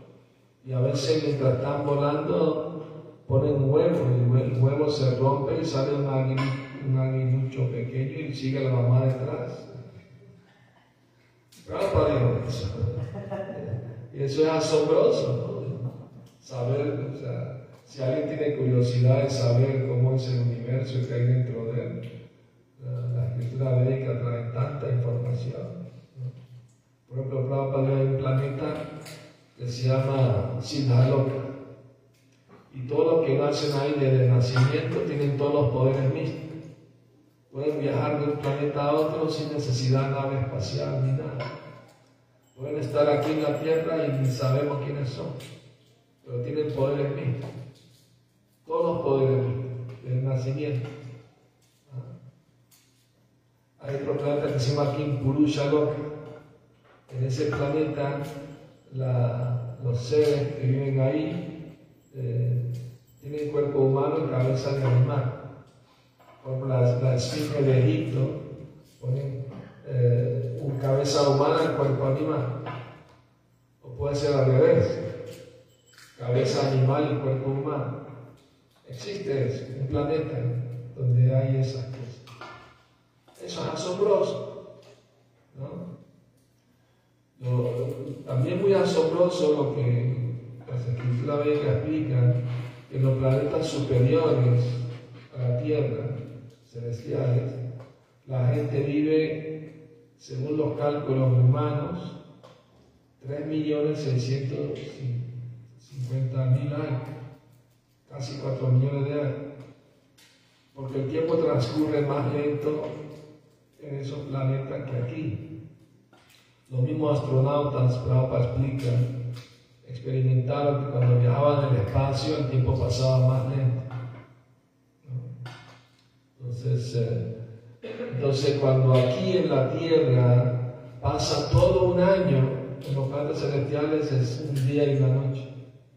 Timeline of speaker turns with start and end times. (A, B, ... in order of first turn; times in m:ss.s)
0:00.6-0:02.7 A
0:03.2-0:09.7 A
0:11.6-0:22.0 A
0:22.8-0:26.4 A
0:27.1-0:28.9 A
0:29.5-0:31.6 A
0:32.7-0:36.4 A
0:37.5-0:41.5 A
0:42.5-0:45.4 A
0:46.2-0:47.4 A
0:48.6-0:50.9 A
0:51.9-0:52.1 A
0:53.8-0:56.1 A
0:57.1-0:58.3 A
0:58.8-1:01.5 A
1:02.1-1:02.7 A
1:03.2-1:05.4 A
1:06.4-1:08.4 A
1:09.0-1:12.6 A
1:13.8-1:15.1 A
1:16.2-1:18.0 A
1:18.8-1:22.2 A
1:23.4-1:24.5 A
1:25.5-1:25.9 A
1:27.4-1:37.6 A
1:38.2-1:39.5 A
1:40.2-1:42.2 A
1:43.2-1:47.1 A
1:48.1-1:49.4 A
1:50.7-1:53.0 A
1:53.8-1:55.5 A
1:56.7-1:59.1 A
1:59.8-2:03.9 A
2:05.0-2:05.3 A
2:06.4-2:07.3 A
2:08.1-2:15.5 A